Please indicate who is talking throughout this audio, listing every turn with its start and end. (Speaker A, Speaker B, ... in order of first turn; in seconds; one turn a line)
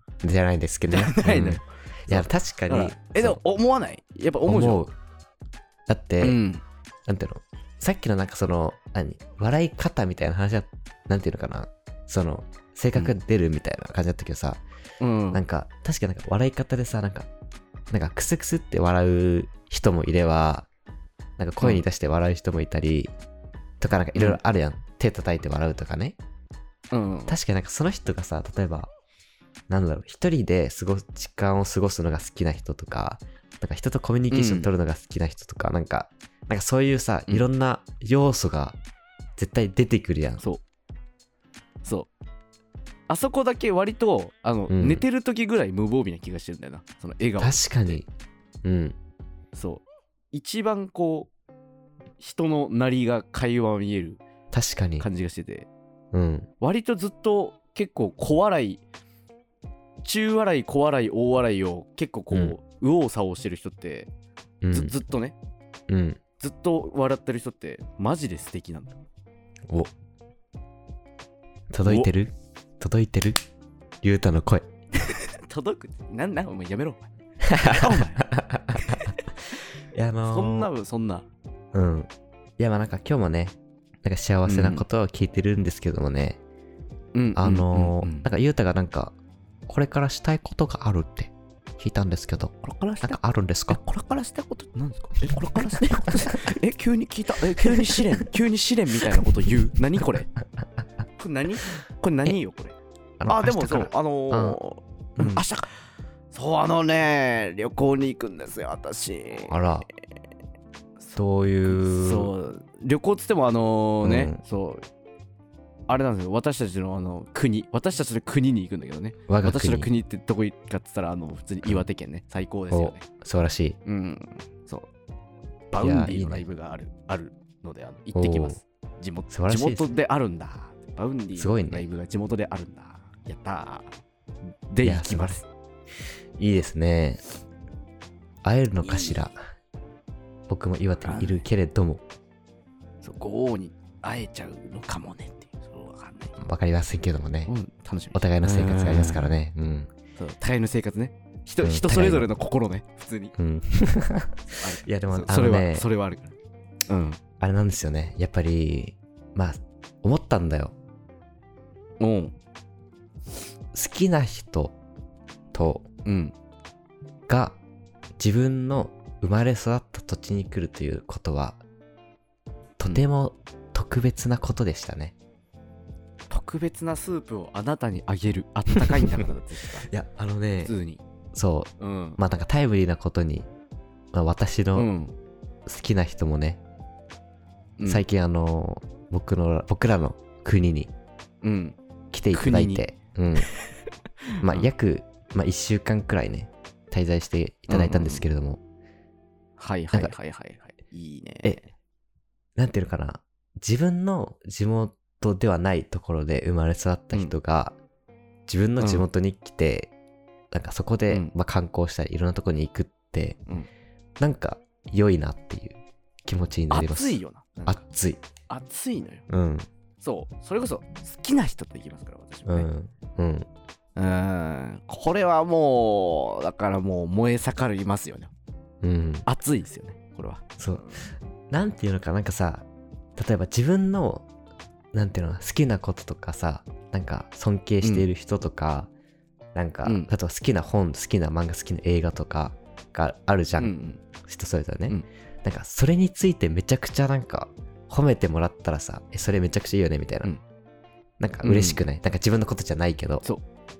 Speaker A: 0.2-3.4
Speaker B: 0.9-4.8
Speaker A: 4.5-4.9
Speaker A: 5.9-6.4
Speaker B: 6.2-6.6
Speaker A: 7.1-14.6
Speaker B: 15.0-15.4
Speaker A: 15.3-17.3
Speaker A: 17.9-20.7
Speaker A: 21.4-23.1
Speaker A: 23.8-26.2
Speaker B: 26.9-27.4
Speaker A: 27.3-28.9
Speaker A: 29.7-38.8
Speaker B: 34.3-34.7
Speaker A: 39.4-40.4
Speaker B: 41.8-42.1
Speaker B: 43.1-48.0
Speaker A: 44.7-45.0
Speaker A: 47.4-48.1
Speaker A: 48.6-49.0
Speaker B: 49.5-51.3
Speaker B: 52.2-54.2
Speaker A: 54.5-55.0
Speaker B: 55.0-55.7
Speaker A: 56.1-56.5
Speaker B: 56.6-58.8
Speaker B: 60.0-64.1
Speaker A: 64.6-64.9
Speaker B: 64.7-65.3
Speaker A: 65.9-66.2
Speaker B: 66.4-69.0
Speaker A: 71.7-73.4
Speaker B: 71.8-72.1
Speaker A: 74.0-74.7
Speaker B: 75.0-79.1
Speaker A: 77.4-79.2
Speaker A: 79.9-80.7
Speaker B: 80.3-81.3
Speaker A: 81.7-86.4
Speaker B: 84.5-84.8
Speaker B: 87.1-88.3
Speaker A: 87.3-89.1
Speaker A: 89.7-93.8
Speaker B: 92.6-100.3
Speaker A: 95.7-96.3
Speaker A: 97.7-98.0
Speaker B: 101.2-105.8
Speaker A: 103.2-104.6
Speaker A: 105.2-105.4
Speaker B: 106.3-109.7
Speaker A: 109.5-109.9
Speaker B: 111.0-114.8
Speaker A: 111.2-112.3
Speaker A: 114.0-114.4
Speaker B: 115.9-123.0
Speaker A: 119.3-119.9
Speaker A: 122.7-123.8
Speaker B: 123.8-124.9
Speaker B: 125.7-133.9
Speaker A: 125.8-126.4
Speaker A: 128.1-128.6
Speaker A: 129.3-129.9
Speaker A: 131.4-131.8
Speaker B: 134.7-135.5
Speaker A: 134.8-135.4
Speaker A: 136.4-137.2
Speaker A: 138.4-139.4
Speaker B: 138.8-139.2
Speaker A: 140.5-142.0
Speaker B: 141.0-141.4
Speaker B: 143.0-146.4
Speaker A: 146.4-147.5
Speaker B: 147.4-149.3
Speaker A: 148.1-149.9
Speaker B: 150.2-153.3
Speaker A: 151.6-152.3
Speaker A: 153.4-155.9
Speaker B: 154.6-156.3
Speaker B: 156.9-157.2
Speaker A: 157.4-160.7
Speaker B: 162.0-162.3
Speaker A: 163.7-164.8
Speaker A: 165.5-165.8
Speaker B: 166.0-166.3
Speaker A: 167.3-167.6
Speaker A: 168.2-171.6
Speaker A: 172.8-175.1
Speaker B: 176.3-179.9
Speaker A: 178.9-179.2
Speaker A: 179.8-180.7
Speaker B: 180.6-181.0
Speaker A: 181.3-183.5
Speaker B: 181.8-182.2
Speaker A: 184.1-184.9
Speaker B: 184.7-185.1
Speaker A: 185.7-186.6
Speaker B: 187.8-188.0
Speaker A: 187.8-190.9
Speaker B: 191.4-191.8
Speaker A: 192.1-193.5
Speaker B: 192.3-192.8
Speaker B: 194.4-194.7
Speaker A: 194.4-198.6
Speaker B: 197.7-198.2
Speaker B: 199.6-201.7
Speaker A: 202.6-207.8
Speaker A: 208.5-209.9
Speaker B: 208.8-209.1
Speaker A: 210.5-213.4
Speaker A: 214.2-218.2
Speaker B: 216.7-217.8
Speaker B: 218.5-219.2
Speaker A: 219.3-219.7
Speaker B: 220.0-222.7
Speaker A: 222.4-223.5
Speaker B: 223.9-228.3
Speaker A: 228.8-229.3
Speaker B: 229.2-231.0
Speaker A: 230.6-230.9
Speaker A: 231.5-234.2
Speaker A: 234.9-238.9
Speaker A: 239.5-250.3
Speaker B: 239.8-240.1
Speaker B: 243.6-244.0
Speaker A: 251.2-253.2
Speaker B: 251.4-251.8